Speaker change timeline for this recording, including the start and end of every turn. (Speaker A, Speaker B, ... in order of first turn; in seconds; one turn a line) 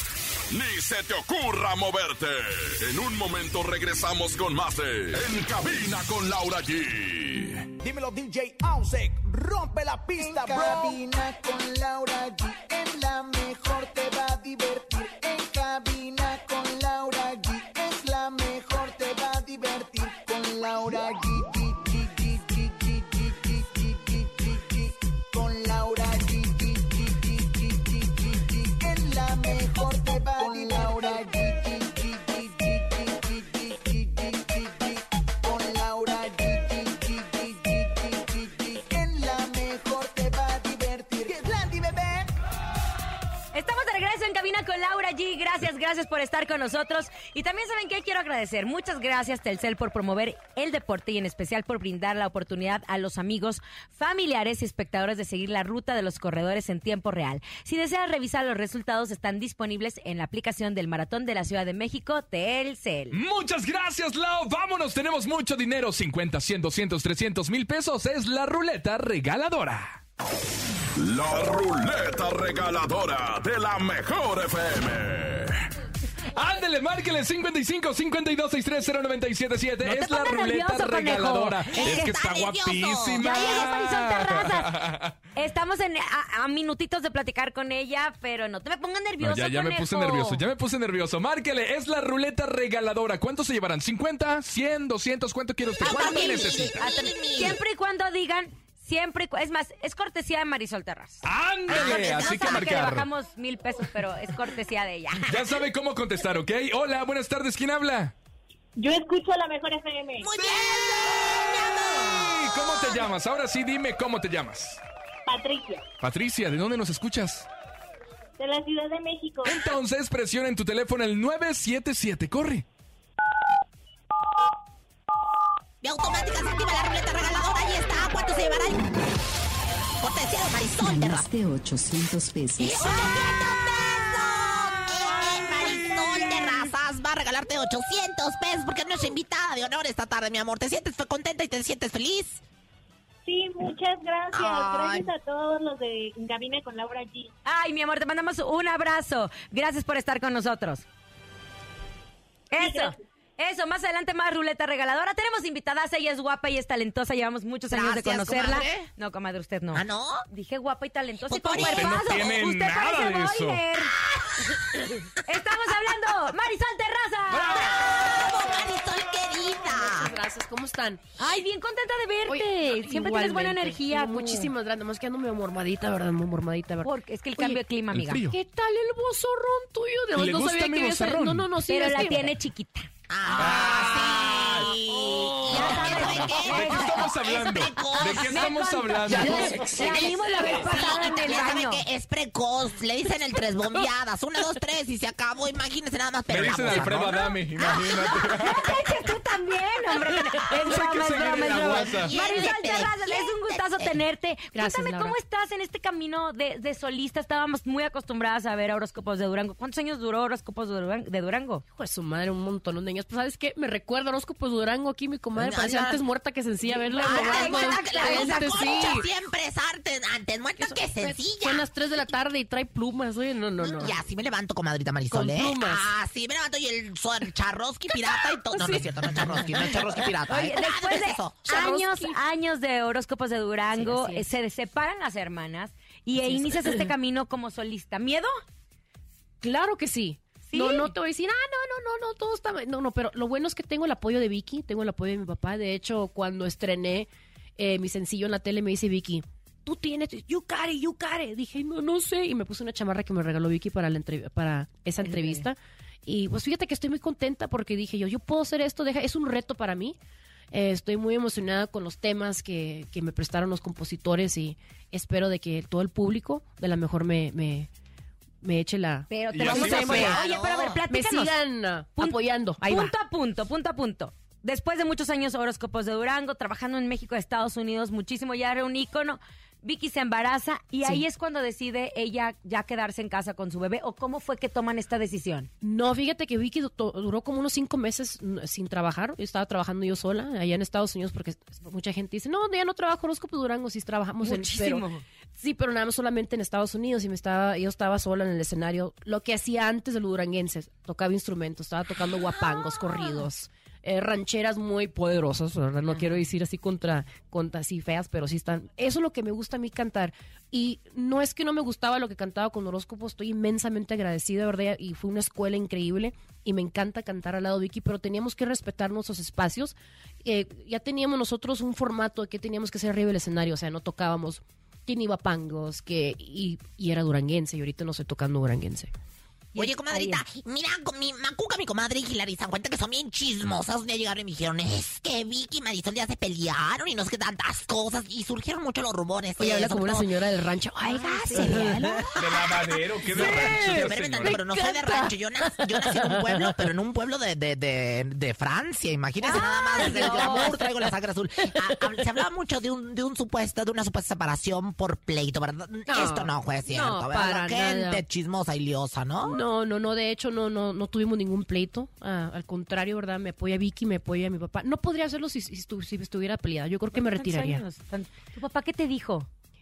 Speaker A: 0.5-7.7
Speaker B: 7.8-11.0
Speaker C: 10.2-42.2
Speaker D: 43.5-63.2
Speaker E: 63.1-70.0
Speaker A: 71.0-75.6
Speaker E: 76.3-85.2
Speaker D: 79.8-82.1
Speaker F: 81.7-83.7
Speaker D: 83.2-84.7
Speaker D: 85.3-90.4
Speaker E: 89.2-96.9
Speaker F: 95.8-97.6
Speaker D: 95.8-105.4
Speaker E: 101.2-103.1
Speaker F: 101.7-102.7
Speaker E: 105.3-108.1
Speaker G: 108.8-110.4
Speaker F: 110.2-113.0
Speaker E: 112.1-114.8
Speaker G: 115.3-115.8
Speaker E: 116.0-117.5
Speaker G: 118.4-119.7
Speaker E: 119.4-122.7
Speaker F: 125.8-129.0
Speaker F: 130.0-131.3
Speaker H: 130.8-132.9
Speaker F: 132.6-142.4
Speaker G: 143.2-147.3
Speaker F: 144.3-145.1
Speaker D: 147.4-150.8
Speaker D: 152.5-163.9
Speaker G: 152.6-152.9
Speaker F: 157.7-158.9
Speaker F: 159.7-160.2
Speaker F: 161.3-162.1
Speaker E: 161.5-163.6
Speaker F: 163.9-164.9
Speaker D: 165.2-167.7
Speaker F: 167.3-170.1
Speaker I: 169.7-171.0
Speaker D: 171.2-174.5
Speaker I: 172.2-177.6
Speaker D: 176.8-178.2
Speaker E: 177.9-178.4
Speaker I: 178.3-182.3
Speaker E: 180.1-181.5
Speaker D: 181.7-182.9
Speaker F: 183.1-188.4
Speaker E: 183.3-190.5
Speaker D: 185.4-187.1
Speaker D: 188.1-191.8
Speaker F: 189.2-197.2
Speaker E: 196.3-198.7
Speaker D: 196.7-211.6
Speaker E: 200.6-202.1
Speaker F: 201.9-204.0
Speaker I: 204.5-205.2
Speaker I: 211.7-219.1
Speaker F: 215.3-216.0
Speaker F: 216.7-221.7
Speaker D: 217.0-219.0
Speaker I: 220.6-224.0
Speaker F: 223.6-231.5
Speaker I: 225.1-225.9
Speaker I: 228.4-230.0
Speaker D: 230.3-238.3
Speaker I: 231.5-232.2
Speaker I: 233.7-234.3
Speaker I: 236.2-236.9
Speaker I: 239.4-259.9
Speaker D: 240.5-240.9
Speaker D: 255.1-255.4
Speaker I: 260.5-267.7
Speaker I: 268.4-270.2
Speaker D: 269.1-271.4
Speaker E: 269.3-270.2
Speaker F: 269.5-270.8
Speaker I: 270.8-272.9
Speaker D: 272.0-285.5
Speaker I: 285.6-328.9
Speaker D: 294.2-294.9
Speaker F: 302.4-303.1
Speaker D: 329.5-330.2
Speaker F: 329.5-340.1
Speaker I: 339.4-342.5
Speaker D: 340.9-341.8
Speaker F: 341.3-342.4
Speaker E: 342.1-344.4
Speaker I: 343.1-346.6
Speaker F: 343.1-359.4
Speaker I: 349.2-350.9
Speaker D: 349.2-350.6
Speaker I: 355.9-358.0
Speaker I: 359.2-367.6
Speaker D: 366.9-369.3